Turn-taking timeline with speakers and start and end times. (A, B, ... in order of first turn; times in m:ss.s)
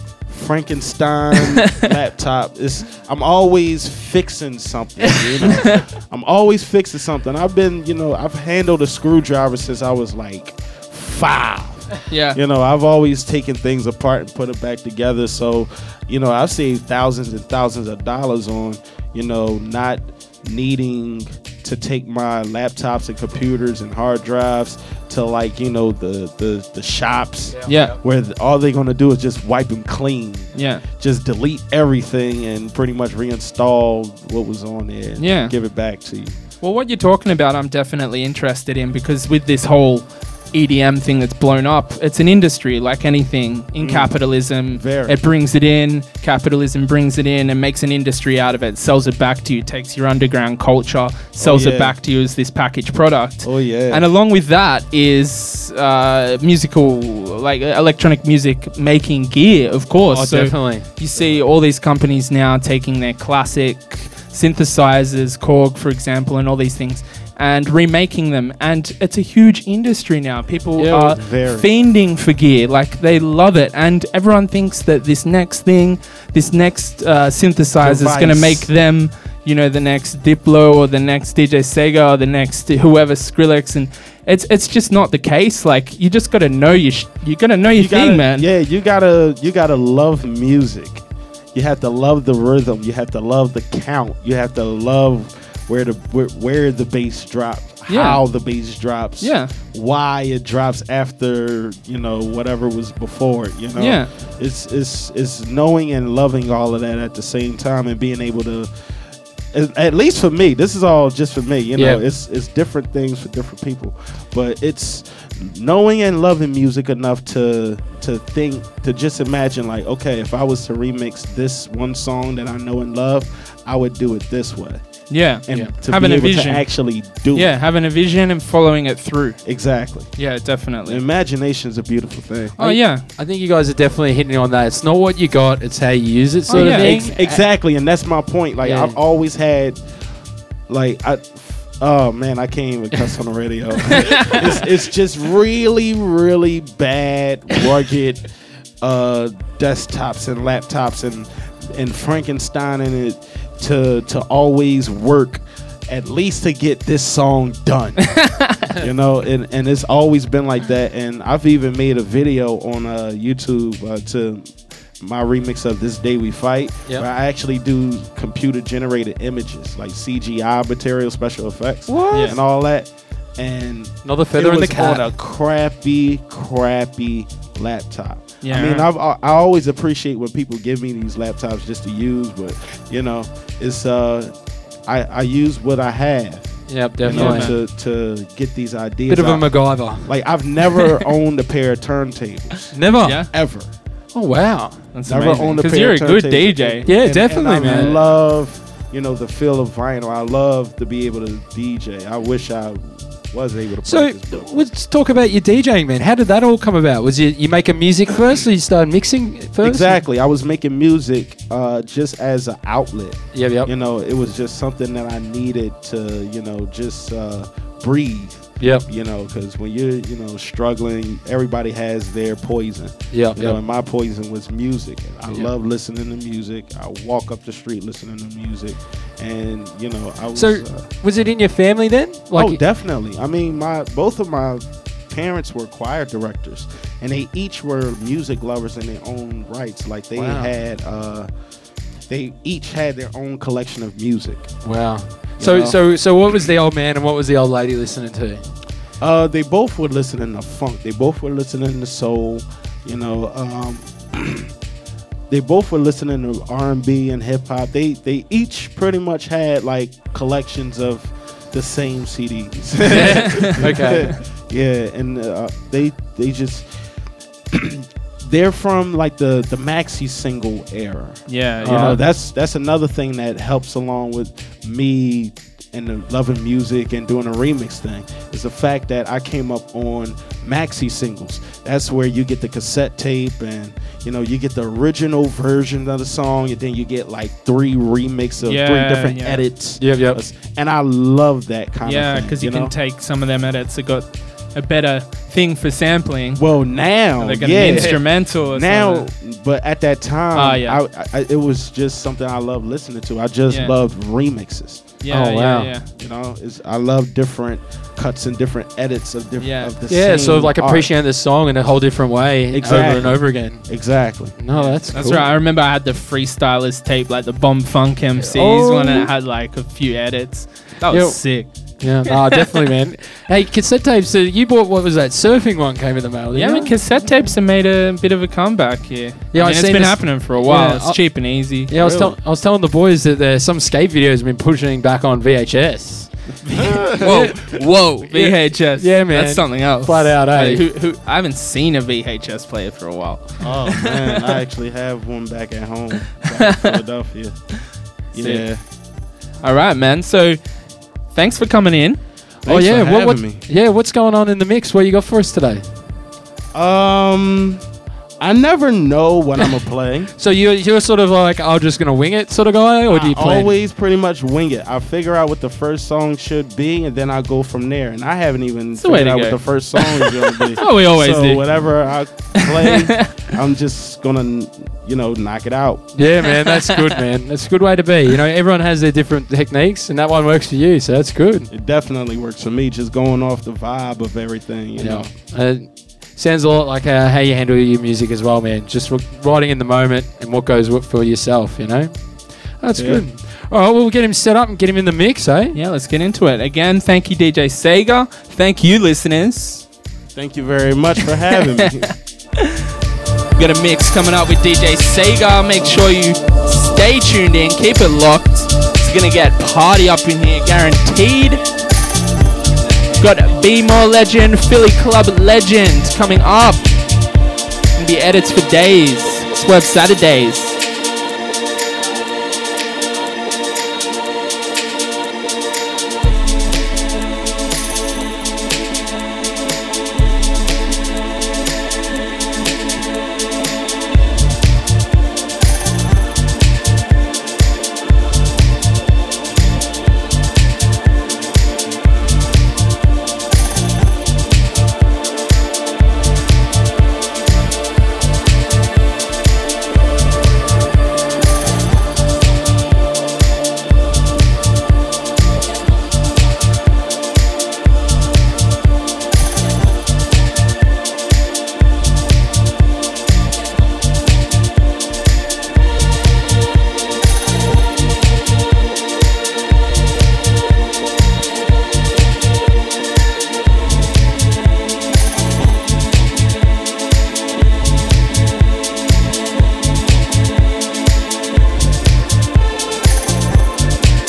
0:00.3-0:36.4 A
0:12.1-0:12.4 B
0:27.5-0:28.0 C
0:27.7-0:28.0 B
0:30.5-0:30.8 B
0:35.2-0:35.6 B
0:36.6-1:28.5 B
0:43.8-0:45.2 A
0:51.4-0:52.0 A
0:53.4-0:54.0 A
1:00.1-1:00.9 C
1:10.8-1:11.2 C
1:10.9-1:11.7 A
1:17.8-1:18.7 A
1:27.8-1:48.7 A
1:37.9-1:38.2 B
1:39.2-1:39.5 B
1:43.8-1:44.1 B
1:49.5-2:07.5 A
1:51.8-1:52.0 C
2:05.1-2:11.0 B
2:09.4-2:12.6 A
2:12.6-2:13.0 B
2:12.6-2:17.5 C
2:16.5-2:17.1 B
2:16.5-2:19.9 A
2:18.6-2:19.0 C
2:20.7-2:28.3 A
2:24.0-2:24.4 B
2:28.8-3:12.7 A
2:38.2-2:38.6 B
2:51.9-2:52.4 C
2:52.1-2:52.4 B
2:54.0-2:55.1 C
2:58.4-2:58.9 B
3:06.7-3:07.5 C
3:07.0-3:07.6 B
3:09.1-3:10.1 C
3:12.7-3:13.4 C
3:13.0-3:13.3 B
3:13.3-3:13.7 A
3:14.1-3:14.9 C
3:14.9-3:18.0 B
3:15.1-3:24.5 A
3:16.9-3:18.0 C
3:23.8-3:30.0 C
3:29.6-3:50.9 A
3:33.3-3:33.7 C
3:38.6-3:38.9 C
3:43.1-3:43.6 C
3:50.4-3:52.6 C
3:52.3-4:01.3 A
4:00.2-4:00.5 C
4:02.0-4:06.4 A
4:04.6-4:08.5 C
4:09.0-4:14.5 A
4:15.3-4:26.7 A
4:22.9-4:24.1 C
4:22.9-4:23.5 B
4:27.5-4:52.8 A
4:31.3-4:32.0 B
4:31.6-4:32.0 C
4:48.4-4:49.5 B
4:49.8-4:50.2 C
4:51.8-4:59.1 B
4:56.4-5:05.0 A
4:57.7-4:58.0 C
5:00.3-5:00.8 B
5:03.5-5:03.8 B
5:05.0-5:05.9 B
5:05.1-5:05.8 C
5:06.0-5:10.9 A
5:09.4-5:09.7 B
5:09.9-5:15.3 C
5:12.5-5:14.8 A
5:14.6-5:21.9 B
5:18.4-5:19.1 C
5:20.9-5:26.7 C
5:26.4-5:31.7 B
5:29.3-5:37.4 C
5:31.8-5:32.2 A
5:36.5-5:37.3 A
5:37.0-5:44.3 B
5:38.0-5:40.7 C
5:43.4-5:48.6 A
5:46.2-5:46.8 B
5:48.1-5:48.6 B
5:49.4-5:50.5 B
5:51.0-5:52.0 B
5:52.4-5:53.4 A
5:52.5-5:55.7 C
5:56.5-5:57.6 A
5:58.2-6:00.1 A
6:00.2-6:03.5 C
6:02.9-6:15.9 A
6:08.8-6:11.9 B
6:12.7-6:13.1 B
6:16.0-6:21.5 C
6:16.3-6:16.7 B
6:21.5-6:25.1 A
6:24.8-6:35.6 C
6:32.8-6:33.1 A
6:35.5-6:39.6 B
6:40.2-6:42.0 A
6:43.4-6:51.4 B
6:53.0-6:56.7 B
6:57.8-7:00.6 B